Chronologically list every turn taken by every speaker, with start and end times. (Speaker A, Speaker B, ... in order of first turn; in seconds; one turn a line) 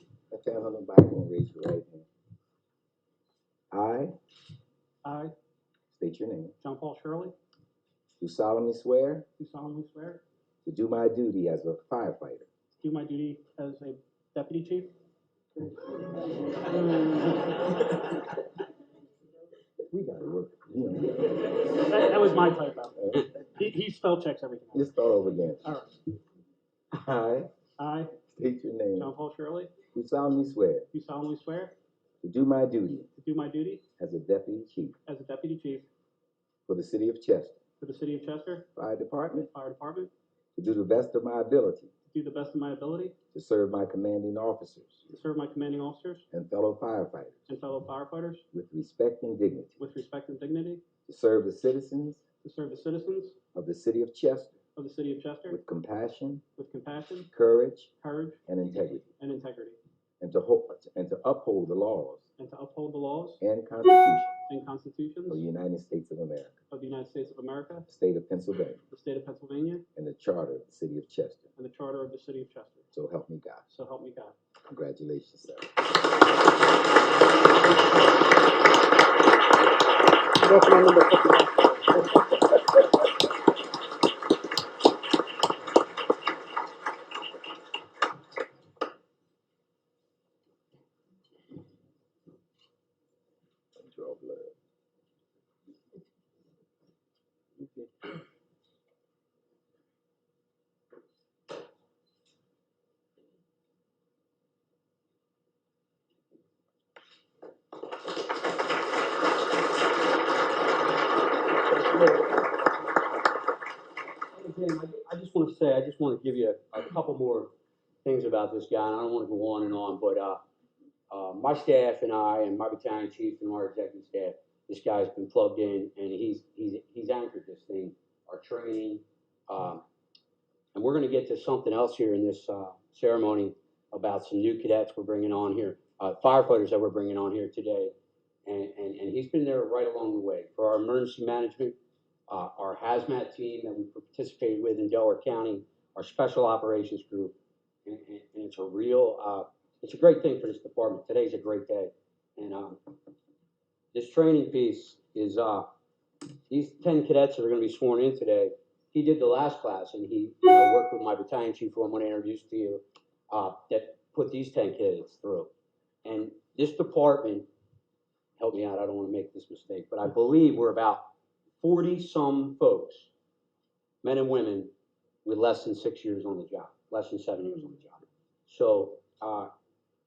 Speaker A: 0.3-2.1
Speaker A: 3.7-4.1
Speaker B: 5.0-5.3
Speaker A: 5.9-6.5
Speaker B: 6.6-7.3
Speaker A: 8.2-9.3
Speaker B: 9.4-10.2
Speaker A: 10.6-12.5
Speaker B: 12.8-14.9
Speaker A: 19.9-21.6
Speaker B: 21.8-24.9
Speaker A: 24.7-25.7
Speaker B: 25.6-25.9
Speaker A: 26.9-27.5
Speaker B: 27.8-28.1
Speaker A: 28.3-29.1
Speaker B: 29.0-29.7
Speaker A: 29.9-30.9
Speaker B: 30.9-31.7
Speaker A: 32.2-33.1
Speaker B: 33.2-33.8
Speaker A: 34.0-35.0
Speaker B: 35.0-35.9
Speaker A: 36.7-37.6
Speaker B: 37.8-38.7
Speaker A: 38.8-39.5
Speaker B: 39.5-40.1
Speaker A: 40.5-41.9
Speaker B: 42.1-43.1
Speaker A: 43.3-45.0
Speaker B: 45.1-46.2
Speaker A: 46.3-47.4
Speaker B: 47.5-48.4
Speaker A: 48.5-49.8
Speaker B: 49.8-50.8
Speaker A: 51.1-52.2
Speaker B: 52.4-53.4
Speaker A: 53.5-54.6
Speaker B: 54.8-55.6
Speaker A: 55.5-56.4
Speaker B: 56.6-57.3
Speaker A: 57.3-57.9
Speaker B: 58.0-58.5
Speaker A: 58.5-59.1
Speaker B: 59.2-59.8
Speaker A: 60.2-62.2
Speaker B: 62.4-63.4
Speaker A: 63.4-64.3
Speaker B: 64.5-65.4
Speaker A: 65.3-66.5
Speaker B: 66.7-67.9
Speaker A: 67.9-68.8
Speaker B: 68.9-69.8
Speaker A: 70.0-71.5
Speaker B: 71.6-72.9
Speaker A: 72.9-73.7
Speaker B: 73.7-74.3
Speaker A: 74.7-75.7
Speaker B: 80.4-82.2
Speaker A: 93.8-94.5
Speaker C: 111.7-112.4
Speaker C: 114.3-117.5
Speaker C: 118.0-120.4
Speaker C: 121.1-129.8
Speaker C: 130.7-137.9
Speaker C: 138.4-141.8
Speaker C: 142.3-147.3
Speaker C: 147.8-152.9
Speaker C: 153.9-155.7
Speaker C: 156.5-165.5
Speaker C: 166.0-167.5
Speaker C: 168.4-171.1
Speaker C: 171.6-173.1
Speaker C: 174.0-174.7
Speaker C: 175.2-179.5